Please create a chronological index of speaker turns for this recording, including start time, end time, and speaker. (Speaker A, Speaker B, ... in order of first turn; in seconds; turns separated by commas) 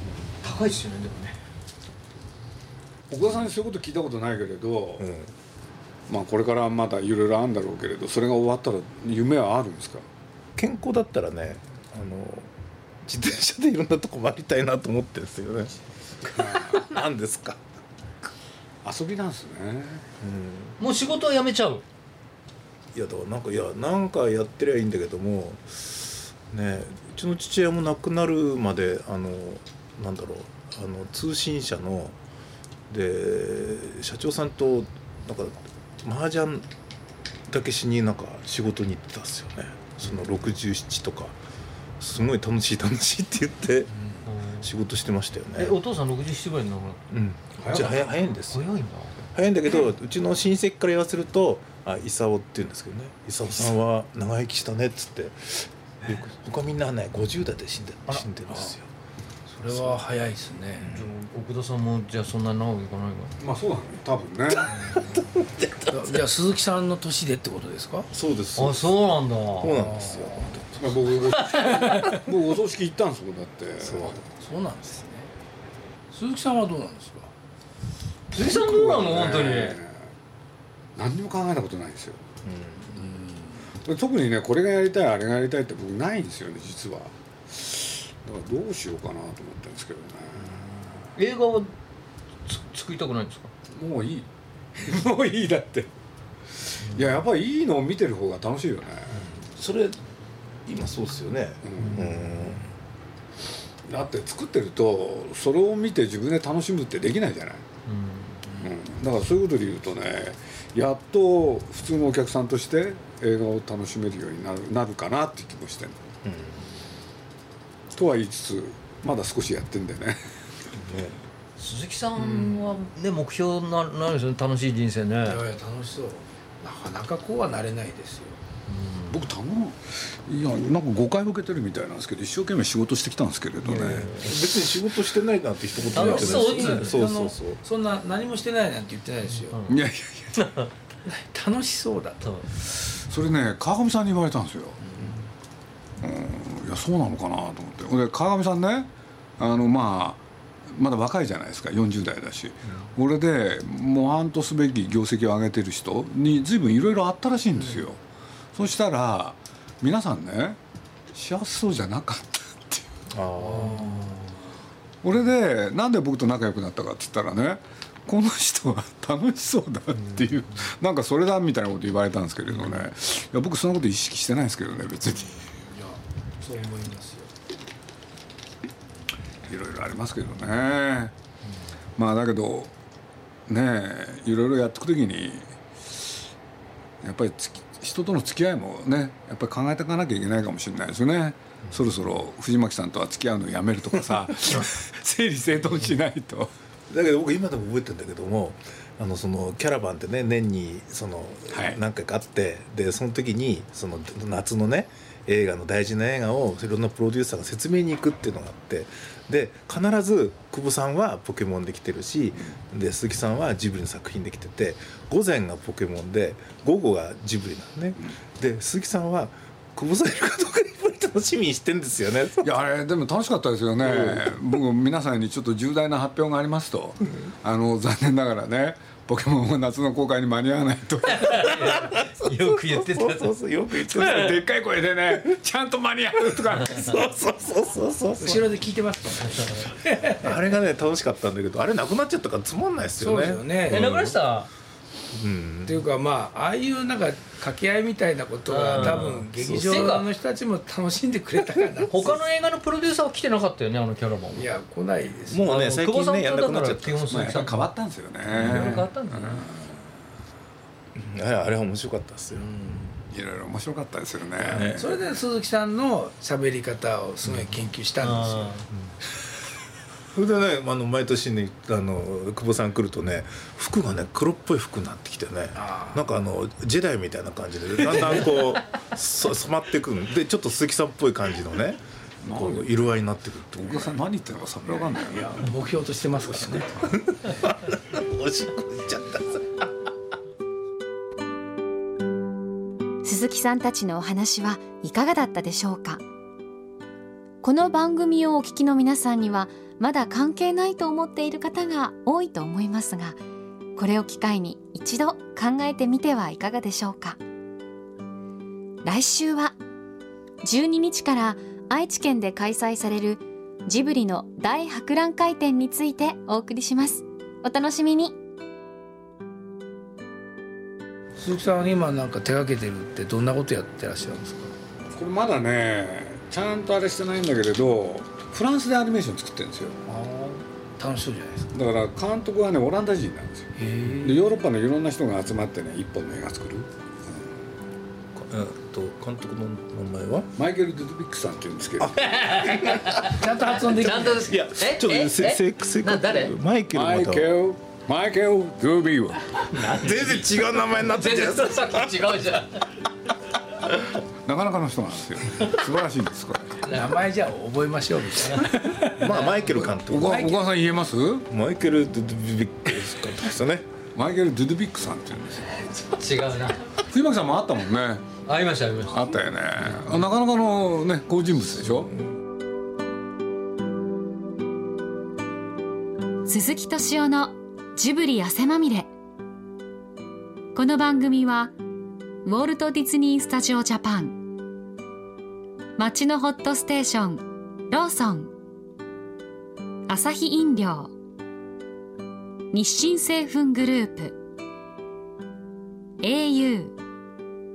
Speaker A: 0.4-1.4, Speaker B: 3.1-5.1, Speaker C: 5.0-5.3, Speaker B: 6.1-10.1, Speaker C: 10.6-12.5, Speaker C: 13.0-17.6, Speaker B: 16.3-16.8, Speaker B: 18.8-20.0, Speaker C: 20.2-20.8, Speaker A: 20.8-21.8, Speaker C: 22.9-32.1, Speaker C: 32.9-36.6, Speaker C: 37.5-41.4, Speaker C: 42.0-43.9, Speaker A: 44.3-44.7, Speaker C: 44.6-45.8, Speaker A: 45.5-47.0, Speaker C: 47.1-48.6, Speaker A: 47.6-49.1, Speaker C: 49.3-58.9, Speaker D: 59.5-61.0, Speaker C: 59.7-60.0, Speaker A: 60.9-63.3, Speaker B: 63.4-64.9, Speaker C: 64.7-66.2, Speaker D: 65.9-68.1, Speaker C: 68.1-68.9, Speaker A: 68.5-69.8, Speaker C: 69.6-70.9, Speaker D: 70.0-70.5, Speaker B: 70.8-74.2, Speaker C: 73.8-74.2, Speaker D: 74.2-75.3, Speaker D: 76.1-77.3, Speaker A: 78.3-79.8, Speaker B: 78.3-80.1, Speaker B: 81.0-82.2, Speaker C: 82.4-83.0, Speaker D: 82.9-83.6, Speaker B: 83.8-90.6, Speaker A: 91.2-91.7, Speaker A: 92.5-93.5, Speaker B: 93.7-95.9, Speaker B: 96.6-99.2, Speaker D: 99.6-99.9, Speaker C: 100.7-102.7, Speaker B: 101.6-102.0, Speaker B: 103.8-107.6, Speaker A: 107.8-108.4, Speaker B: 108.6-116.0, Speaker C: 116.2-116.8, Speaker B: 117.9-120.3, Speaker C: 120.7-121.2, Speaker A: 121.6-125.4, Speaker C: 122.2-122.8, Speaker D: 125.2-128.4, Speaker A: 128.7-129.2, Speaker B: 129.1-134.1, Speaker A: 133.6-134.4, Speaker C: 134.1-137.6, Speaker D: 135.8-139.6, Speaker A: 135.9-136.9, Speaker A: 139.5-139.8, Speaker B: 139.7-140.4, Speaker A: 140.3-140.7, Speaker D: 141.1-142.3, Speaker B: 143.0-144.8, Speaker D: 144.8-145.2, Speaker B: 146.0-158.0, Speaker B: 158.5-160.6, Speaker B: 161.1-162.9, Speaker C: 163.1-164.2, Speaker D: 163.4-164.3, Speaker B: 165.0-175.4, Speaker D: 175.2-177.3, Speaker B: 179.4-181.1, Speaker B: 181.9-182.7, Speaker B: 183.5-185.5, Speaker B: 187.0-196.5, Speaker C: 196.9-222.6, Speaker B: 201.5-201.8, Speaker B: 222.4-231.5, Speaker C: 223.8-224.2, Speaker A: 231.1-233.3, Speaker C: 231.4-234.4, Speaker B: 233.9-237.0, Speaker C: 236.6-238.5, Speaker D: 238.2-240.3, Speaker C: 240.1-244.2, Speaker D: 243.0-243.9, Speaker A: 243.7-244.5, Speaker C: 245.1-245.8, Speaker D: 245.7-252.2, Speaker A: 248.5-250.1, Speaker C: 248.9-249.7, Speaker A: 251.8-254.5, Speaker D: 254.3-255.4, Speaker C: 255.3-257.1, Speaker A: 255.4-257.7, Speaker B: 257.1-259.8, Speaker A: 258.3-259.5, Speaker C: 258.3-258.8, Speaker C: 260.9-262.5, Speaker D: 262.3-262.9, Speaker B: 263.1-265.0, Speaker D: 264.4-268.6, Speaker C: 264.5-264.8, Speaker A: 268.0-268.6, Speaker C: 270.1-283.9, Speaker D: 275.5-276.1, Speaker B: 282.2-282.6, Speaker B: 283.5-285.4, Speaker D: 285.0-286.7, Speaker C: 286.8-289.7, Speaker E: 293.0-296.0, Speaker E: 297.4-303.2, Speaker E: 303.8-307.2, Speaker E: 308.8-309.6, Speaker E: 310.4-318.1, Speaker D: 321.2-324.5, Speaker B: 324.9-329.8, Speaker D: 329.9-331.5, Speaker B: 331.5-337.2, Speaker D: 333.6-334.2, Speaker C: 338.1-340.3, Speaker B: 340.4-342.0, Speaker C: 341.8-343.1, Speaker A: 342.0-343.1, Speaker D: 343.0-344.3, Speaker A: 343.6-346.3, Speaker C: 344.2-347.3, Speaker B: 346.7-349.4, Speaker A: 349.5-352.8, Speaker C: 349.6-351.9, Speaker B: 353.7-356.6, Speaker D: 356.6-359.0, Speaker C: 358.8-360.3, Speaker A: 359.0-359.5, Speaker B: 359.5-361.3, Speaker D: 360.1-360.3, Speaker C: 361.3-363.6, Speaker B: 363.9-365.6, Speaker A: 365.8-366.6, Speaker B: 366.9-368.2, Speaker A: 368.2-369.0, Speaker B: 368.9-371.9, Speaker E: 376.2-378.9, Speaker E: 380.5-381.5, Speaker E: 382.2-384.2, Speaker E: 385.8-388.3, Speaker E: 389.9-390.9, Speaker E: 392.5-394.1, Speaker E: 396.0-396.8